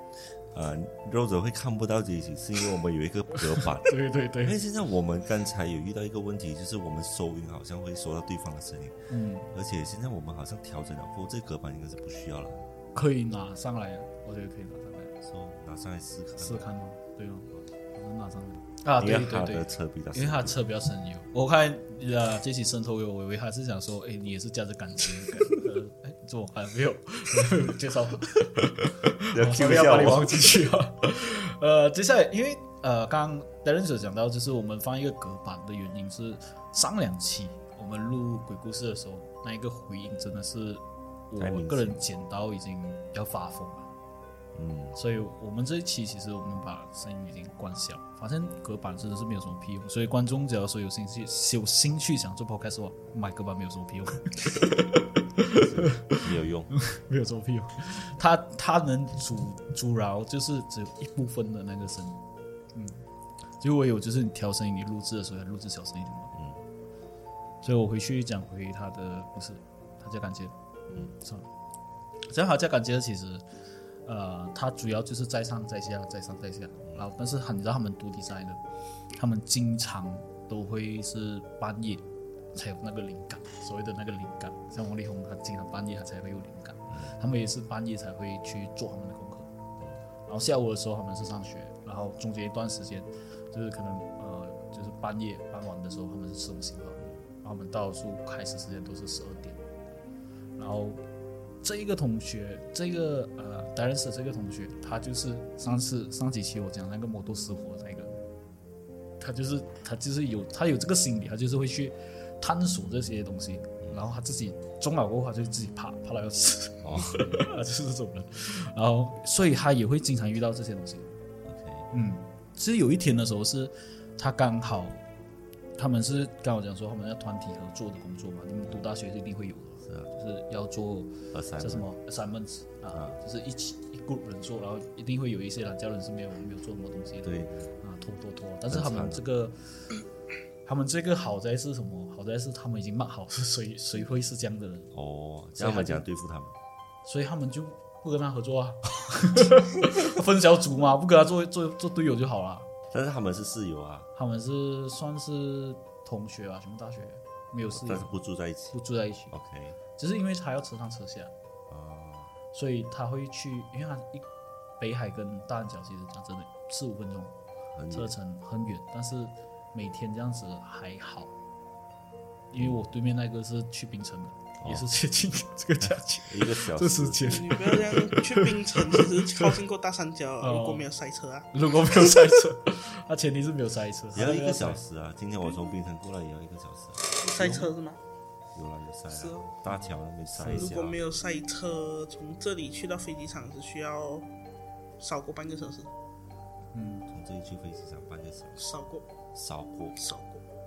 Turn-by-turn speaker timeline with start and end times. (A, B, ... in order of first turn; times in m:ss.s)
0:00.4-0:09.0 A
0:03.6-0:04.6 B
0:09.1-0:09.5 B
0:09.5-0:12.7 A
0:12.9-0:15.1 B
0:15.2-0:16.7 A
0:16.4-0:43.9 B
0:19.0-0:20.6 A
0:29.2-0:30.5 A
0:41.4-0:42.1 A
0:44.5-0:45.0 A
0:44.9-1:02.2 B
0:55.6-0:56.7 A
1:02.7-1:03.0 B
1:03.6-1:06.3 B
1:06.3-1:06.6 A
1:07.6-1:10.5 B
1:11.1-1:11.5 B
1:12.3-1:13.4 B
1:14.0-1:18.6 B
1:19.1-1:29.5 B
1:30.3-1:39.6 B
1:40.6-1:41.0 B
1:41.6-1:48.1 B
1:49.2-2:01.1 B
1:56.8-1:57.4 A
2:01.4-2:01.9 A
2:01.9-2:05.0 B
2:05.8-2:19.6 B
2:09.8-2:10.1 A
2:11.3-2:11.8 A
2:12.9-2:13.2 A
2:17.2-2:17.7 A
2:18.7-2:19.2 A
2:20.6-2:24.9 B
2:24.9-2:26.5 A
2:25.6-2:26.0 B
2:27.0-2:32.7 B
2:32.9-2:34.1 A
2:34.1-2:38.1 B
2:37.7-2:38.8 A
2:38.7-2:39.3 B
2:39.3-2:39.8 A
2:40.0-2:41.3 B
2:41.7-2:42.3 A
2:42.5-2:44.3 B
2:44.8-2:47.3 B
2:47.7-2:48.1 A
2:47.9-2:51.3 B
2:52.5-2:59.5 B
2:54.6-2:54.8 A
2:55.8-2:57.6 A
2:57.2-3:02.3 C
3:00.4-3:00.9 B
3:01.5-3:04.8 B
3:04.1-3:07.7 A
3:07.1-3:08.0 C
3:08.5-3:11.0 A
3:09.1-3:09.5 C
3:10.3-3:10.7 B
3:10.5-3:14.3 C
3:15.0-3:15.9 C
3:16.7-3:17.1 B
3:17.1-3:18.6 A
3:18.6-3:19.0 C
3:19.3-3:20.0 A
3:20.0-3:20.4 C